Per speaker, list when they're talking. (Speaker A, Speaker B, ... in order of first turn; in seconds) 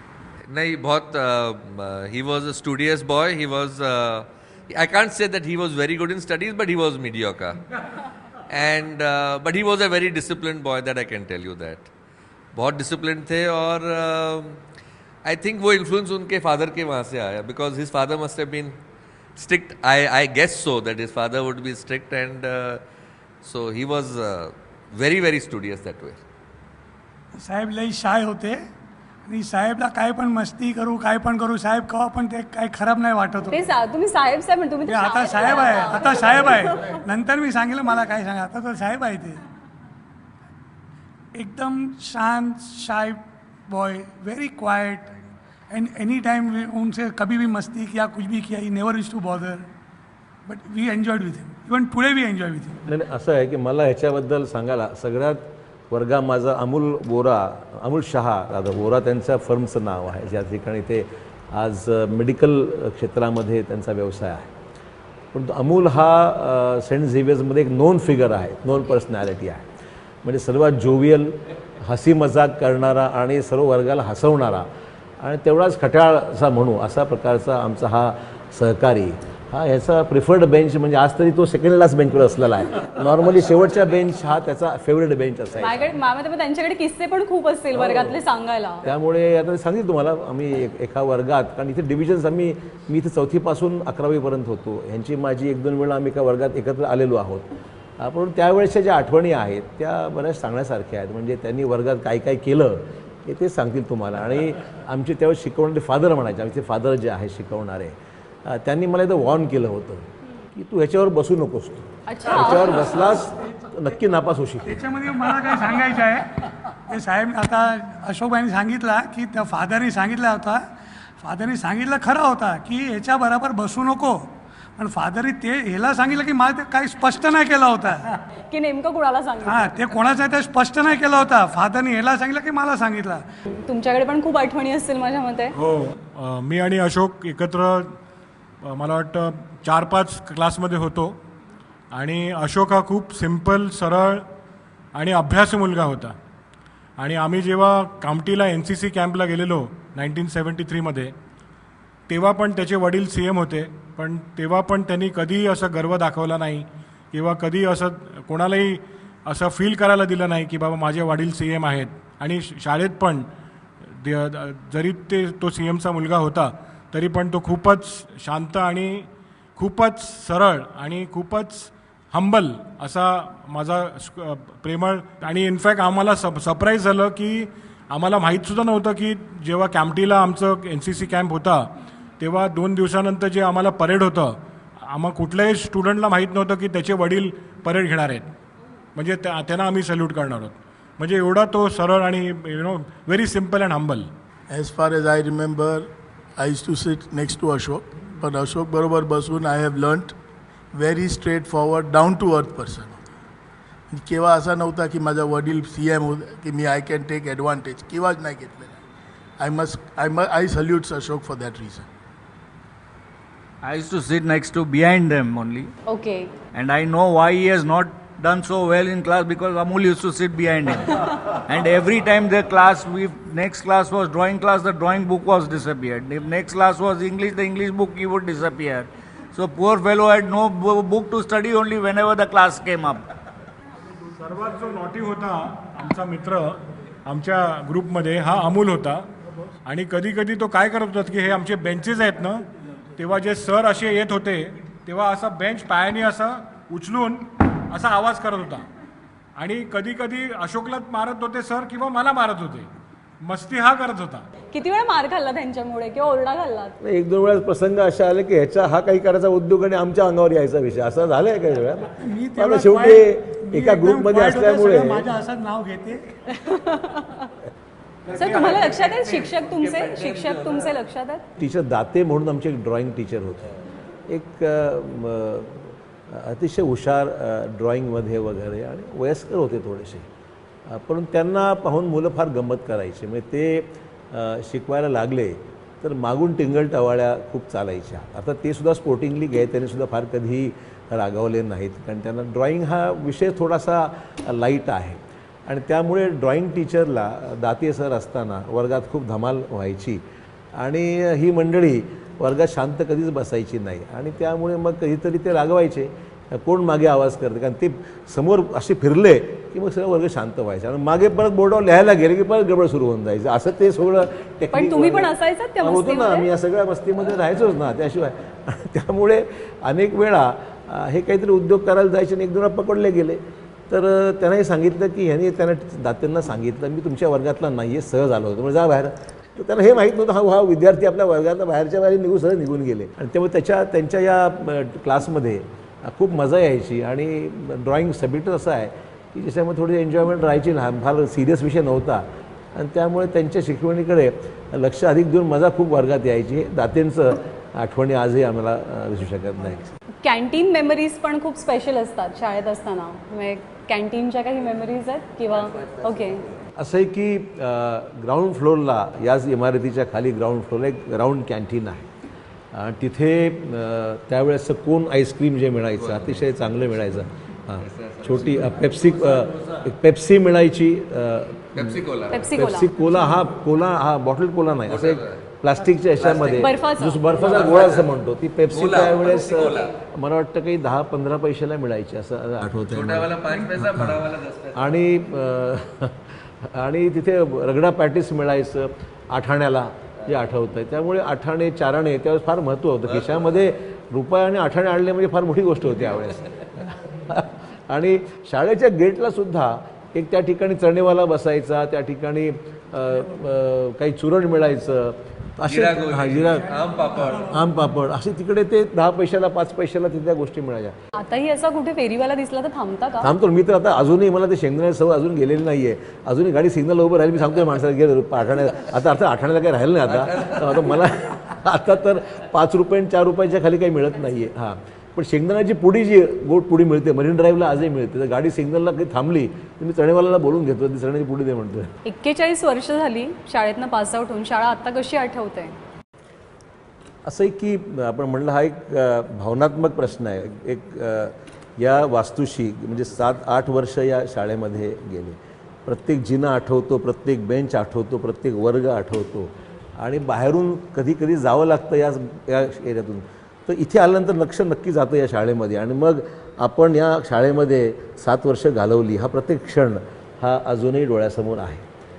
Speaker A: 0.5-7.6, 8.5-11.9, 12.5-14.6, 15.2-18.8, 19.4-22.8, 23.4-26.2, 365.8-366.1, 367.8-368.4, 371.6-372.1, 374.7-375.1, 376.0-376.4, 377.4-377.8, 378.6-379.7, 382.7-384.6, 405.5-407.4
Speaker B: 27.4-28.6, 29.3-33.6, 34.9-39.4, 41.4-45.1, 45.7-49.7, 50.5-52.8, 114.7-120.6, 121.2-128.2, 129.4-133.2, 262.0-266.0
Speaker C: 33.5-36.6, 85.6-88.8, 112.1-113.1, 128.5-129.7, 133.7-135.6, 215.9-216.3, 254.5-256.8, 266.3-267.3, 268.1-271.2, 314.5-316.3, 350.0-356.2, 372.1-372.7, 376.4-377.0, 411.0-413.1, 431.9-435.5
Speaker D: 52.9-64.5, 65.3-69.7, 70.2-74.7, 75.2-85.8, 87.8-88.2, 88.8-114.8, 256.8-265.1, 271.4-273.5, 274.1-280.1, 280.7-300.0, 300.6-315.1, 315.6-342.0, 342.6-349.6, 356.6-361.9, 362.5-386.0, 386.5-406.6, 407.2-410.8, 413.0-431.7, 437.1-461.6
Speaker E: 135.6-137.9, 138.7-141.1, 141.9-144.2, 144.9-146.2, 147.0-151.1, 152.1-163.2, 164.0-168.9, 169.6-177.3, 177.9-181.6, 182.2-184.3, 184.9-188.2, 189.0-194.1, 234.2-236.5, 237.1-239.0, 239.7-242.4, 243.0-248.6, 249.4-252.7, 253.2-254.2
Speaker F: 194.5-200.2, 200.7-203.0, 203.9-208.8, 209.4-211.9
Speaker G: 213.6-215.7, 216.5-233.0